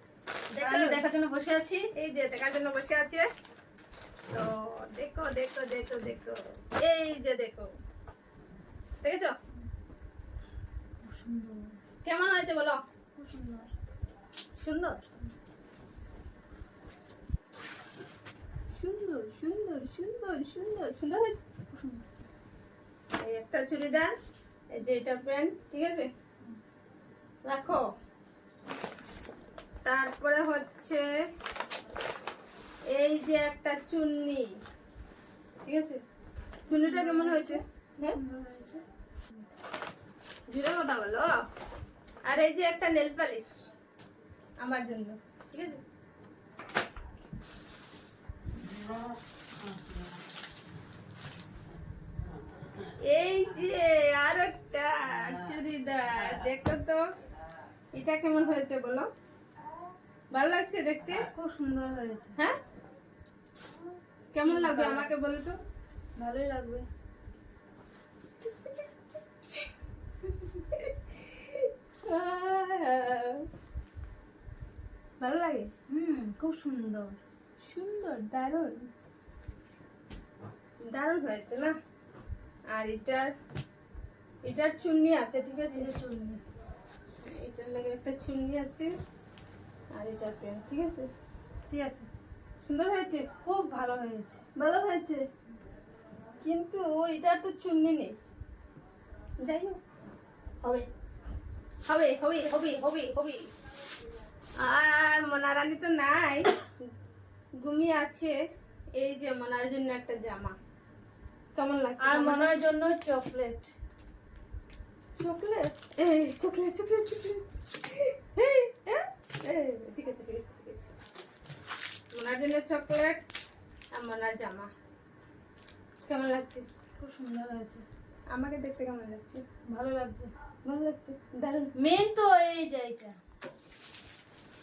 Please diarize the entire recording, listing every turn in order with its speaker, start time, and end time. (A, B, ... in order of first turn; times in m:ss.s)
0:00.5-0:01.0 A
0:00.6-0:01.9 B
0:02.0-0:03.3 A
0:04.3-0:07.7 A
0:09.0-0:09.3 A
0:11.0-0:11.7 B
0:12.0-0:12.8 A
0:13.2-0:13.7 B
0:14.6-0:15.0 A
0:18.7-0:21.4 A
0:21.7-0:22.0 B
0:23.2-0:24.1 A
0:24.7-0:26.1 A
0:27.4-0:27.8 A
0:29.8-0:31.0 A
0:32.9-0:34.4 A
0:35.6-0:36.0 A
0:36.7-0:38.2 A
0:36.7-0:38.8 B
0:40.5-0:41.3 A
0:42.2-0:43.5 A
0:44.6-0:45.8 A
0:53.0-0:57.0 A
0:57.9-0:59.1 A
1:00.3-1:01.3 A
1:01.3-1:02.4 B
1:04.3-1:05.6 A
1:04.4-1:05.1 B
1:06.2-1:06.8 B
1:08.4-1:08.9 A
1:10.3-1:13.4 A
1:15.2-1:15.7 A
1:15.9-1:17.2 B
1:17.6-1:18.8 A
1:20.8-1:21.7 A
1:22.7-1:23.3 A
1:24.4-1:25.9 A
1:25.7-1:26.4 B
1:27.2-1:28.9 A
1:29.9-1:31.1 A
1:31.7-1:32.1 B
1:32.6-1:33.3 A
1:33.4-1:34.4 B
1:34.6-1:35.2 A
1:36.4-1:38.1 A
1:39.4-1:39.8 A
1:41.9-1:43.4 A
1:44.6-1:46.4 A
1:47.6-1:48.4 A
1:49.0-1:50.5 A
1:51.6-1:52.5 A
1:52.0-1:53.7 B
1:55.2-2:00.9 A
2:02.1-2:03.2 A
2:03.9-2:04.7 A
2:06.1-2:06.6 A
2:07.0-2:07.8 B
2:08.3-2:09.4 A
2:09.7-2:10.3 B
2:10.6-2:11.7 A
2:11.8-2:13.2 B